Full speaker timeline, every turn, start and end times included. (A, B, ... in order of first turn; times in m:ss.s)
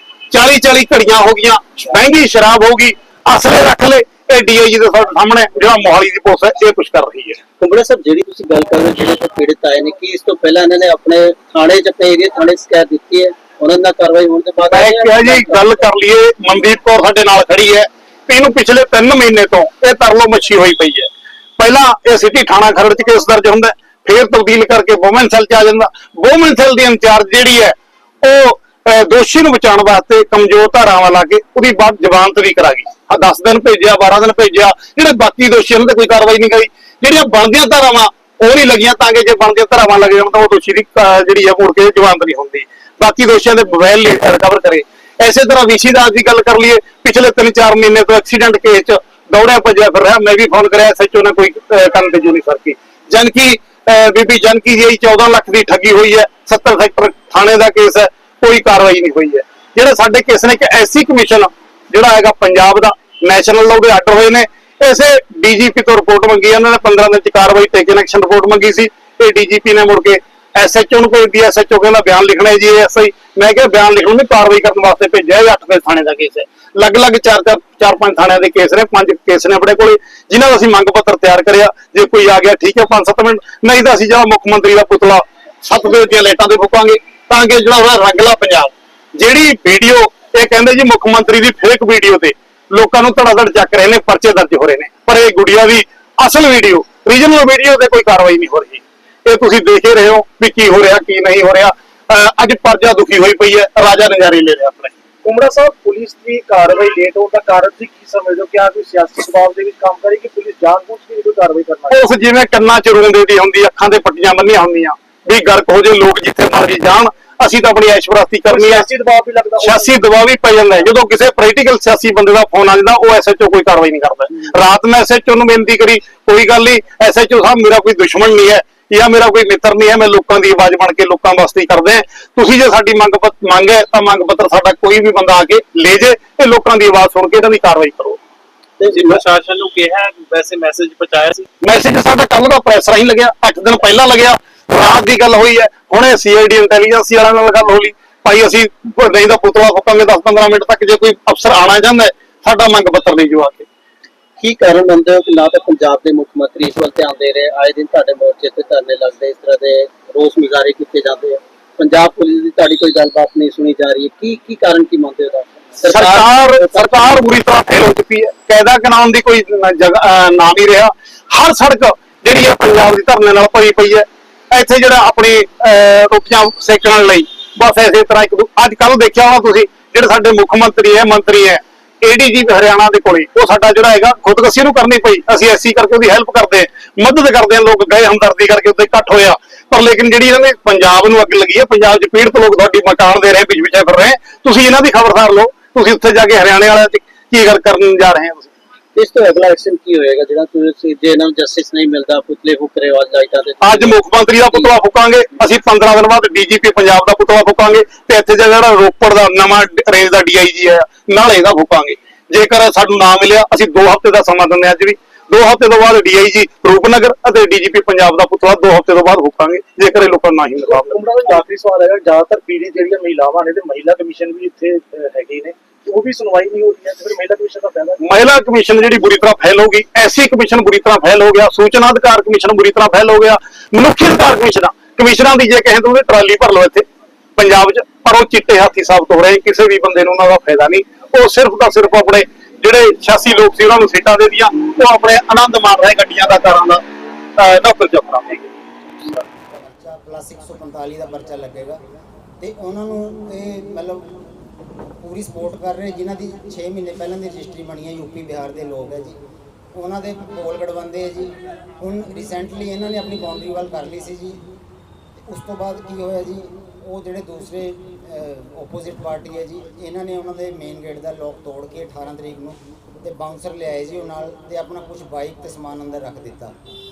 0:00.3-0:07.4 A
0:07.6-0:15.7 B
0:14.7-1:45.0 A
1:45.2-1:52.0 C
1:51.9-1:58.9 A
1:58.5-2:00.0 C
1:59.6-2:18.2 A
2:18.8-2:19.2 B
2:18.9-2:21.5 D
2:21.6-2:33.7 A
2:34.4-2:47.2 B
2:45.8-3:18.5 A
3:19.0-3:24.7 B
3:23.6-3:41.1 A
3:40.6-3:48.0 C
3:48.0-3:56.8 A
3:57.4-4:06.8 A
4:07.4-4:08.4 A
4:09.5-4:11.8 E
4:12.4-4:14.1 E
4:15.0-4:19.2 E
4:19.7-4:24.4 E
4:25.2-4:36.6 E